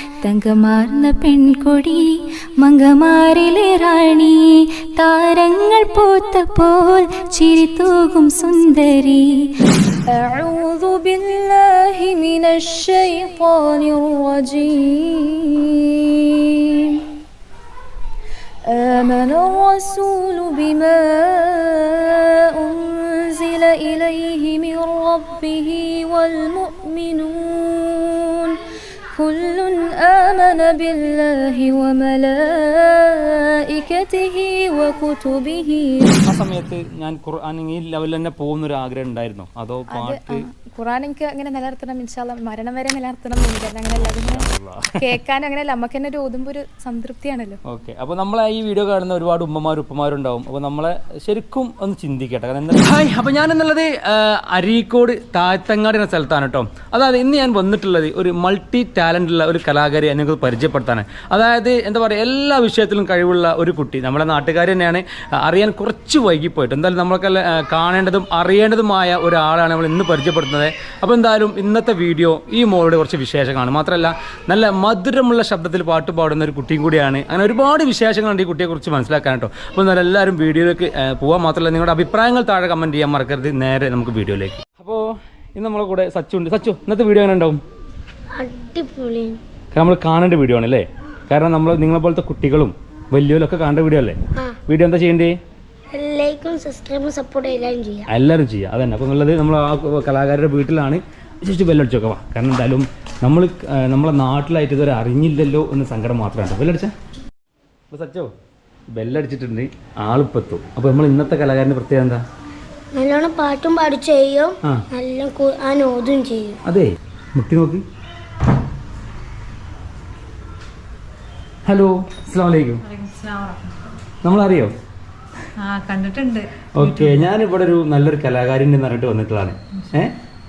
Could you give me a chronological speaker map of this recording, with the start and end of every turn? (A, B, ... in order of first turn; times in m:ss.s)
0:00.2-0:02.0 A
0:02.6-0:15.8 A
0:18.7-0:28.6 A
0:29.2-0:36.2 A
0:36.2-0:40.4 B
0:39.9-0:44.4 C
0:44.0-0:45.0 B
0:45.0-0:47.6 C
0:47.7-1:27.6 B
1:28.4-1:29.4 D
1:29.7-1:35.4 B
1:35.9-1:38.0 D
1:38.1-1:46.9 B
1:47.9-1:48.3 B
1:48.9-1:52.2 B
1:52.9-1:56.6 D
1:56.7-1:57.8 B
2:01.6-2:02.8 B
2:02.8-2:04.0 E
2:04.2-2:04.7 B
2:05.6-2:07.2 E
2:06.7-2:10.2 B